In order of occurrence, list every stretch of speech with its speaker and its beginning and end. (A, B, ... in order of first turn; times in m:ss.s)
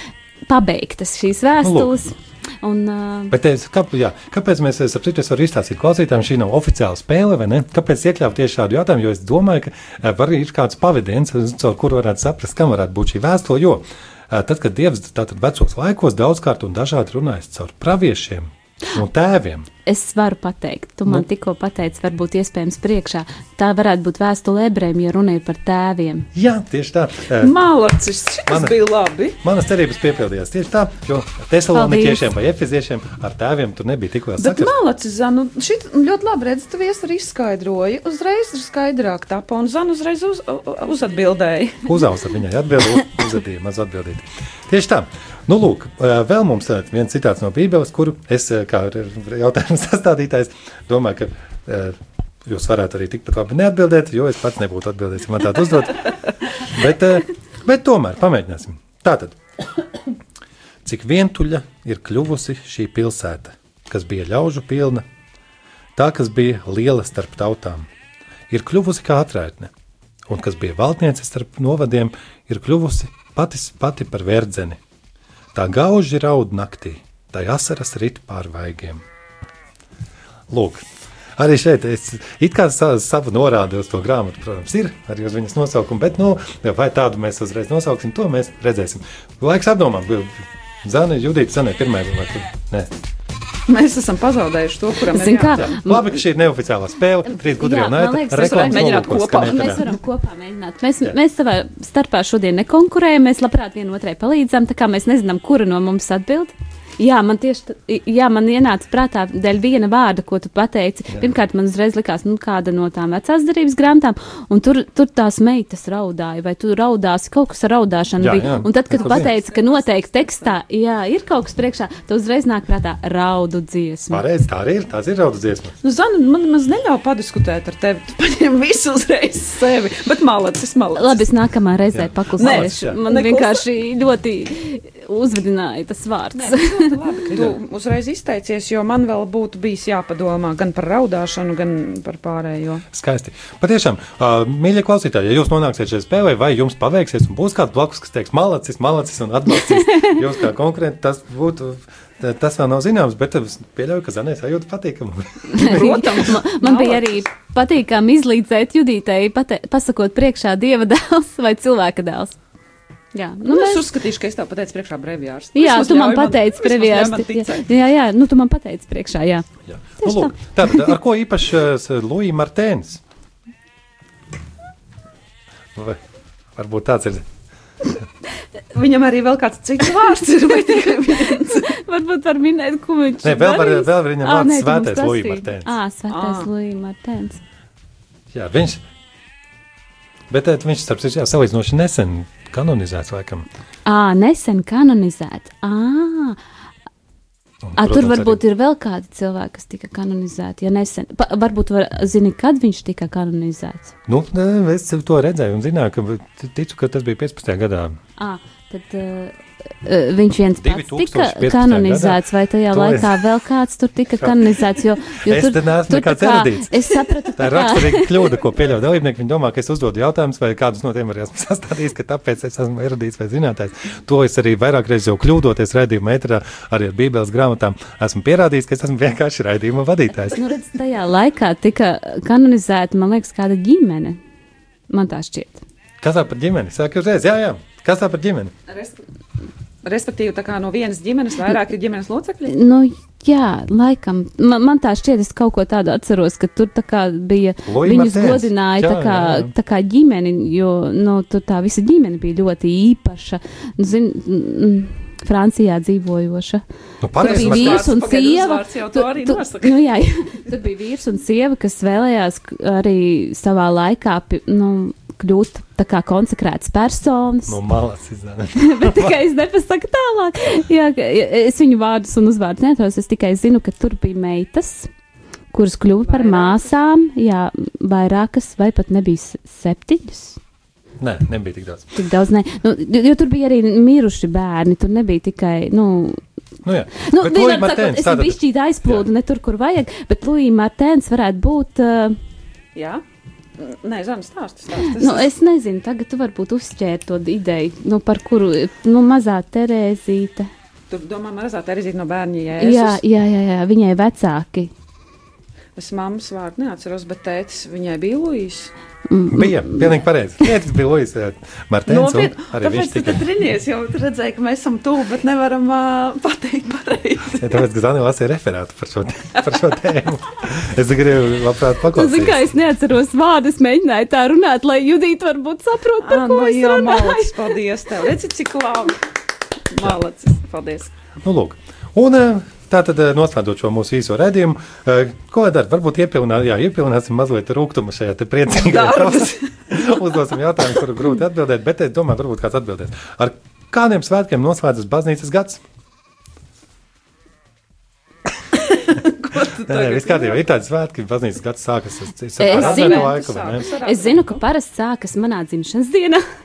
0:00.5-0:03.4 A
0:01.6-0:02.0 B
0:03.3-0:19.7 B
0:19.8-0:26.3 A
0:26.3-0:27.5 B
0:27.4-0:29.4 C
0:28.5-0:28.8 B
0:29.4-0:34.7 B
0:31.7-0:32.3 A
0:34.4-0:41.9 C
0:41.8-0:56.1 B
0:56.6-0:59.4 B
1:00.8-1:05.0 B
1:06.0-1:07.9 B
1:08.5-1:09.7 B
1:10.3-1:14.8 B
1:15.5-1:19.0 B
1:20.5-1:20.8 B
1:21.4-1:30.3 B
1:30.8-1:32.9 B
1:33.7-1:35.8 C
1:35.1-1:36.2 A
1:35.5-1:39.8 B
1:37.3-2:04.2 A
1:38.4-1:39.9 C
1:58.2-1:59.3 B
1:58.9-2:00.5 C
2:04.1-2:05.8 B
2:05.8-2:11.2 C
2:10.9-2:16.9 A
2:11.9-2:13.0 B
2:12.4-2:13.6 C
2:16.4-2:22.8 C
2:17.3-2:17.6 B
2:22.9-2:36.0 B
2:29.5-2:30.2 A
2:35.5-2:42.4 A
2:35.6-2:37.2 C
2:43.1-2:43.9 A
2:43.4-2:47.7 C
2:45.5-2:49.5 A
2:49.7-2:53.0 B
2:50.0-2:50.3 A
2:56.6-2:57.2 B
2:58.7-3:01.6 C
3:01.3-3:07.4 A
3:03.2-3:05.8 B
3:06.1-3:06.5 C
3:08.3-3:08.8 B
3:10.3-3:13.4 B
3:13.8-3:16.4 A
3:17.6-3:18.4 B
3:17.8-3:23.9 A
3:24.1-3:27.9 B
3:28.2-3:38.3 A
3:30.6-3:32.2 B
3:32.7-3:33.2 B
3:35.2-3:36.7 B
3:37.4-3:50.4 B
3:50.2-3:54.2 A
3:54.9-3:55.6 A
3:56.0-3:58.5 B
3:58.7-3:59.0 C
3:59.8-4:02.5 C
4:02.4-4:16.6 A
4:07.6-4:09.5 B
4:17.0-4:17.9 B
4:17.2-4:27.6 A
4:17.2-4:19.8 C
4:27.5-4:29.2 B
4:28.6-4:34.9 A
4:35.5-4:40.4 A
4:36.0-4:36.7 C
4:41.0-4:41.9 B
4:41.9-4:46.2 A
4:46.6-4:49.0 B
4:47.0-4:52.1 A
4:52.8-4:53.0 C
4:53.6-4:55.3 C
4:54.8-5:00.5 A
5:00.9-5:03.0 C
5:02.6-5:04.7 A
5:05.8-5:08.7 C
5:09.1-5:10.0 A
5:09.3-5:13.2 B
5:11.9-5:17.6 C
5:17.3-5:22.5 B
5:21.9-5:27.3 A
5:26.0-5:29.0 C
5:29.7-5:30.9 C
5:31.2-5:45.6 B
5:38.5-5:39.4 C
5:48.6-5:50.4 C
5:49.6-5:53.6 B
5:52.4-5:53.1 A
5:52.4-5:54.4 C
5:53.8-5:56.2 A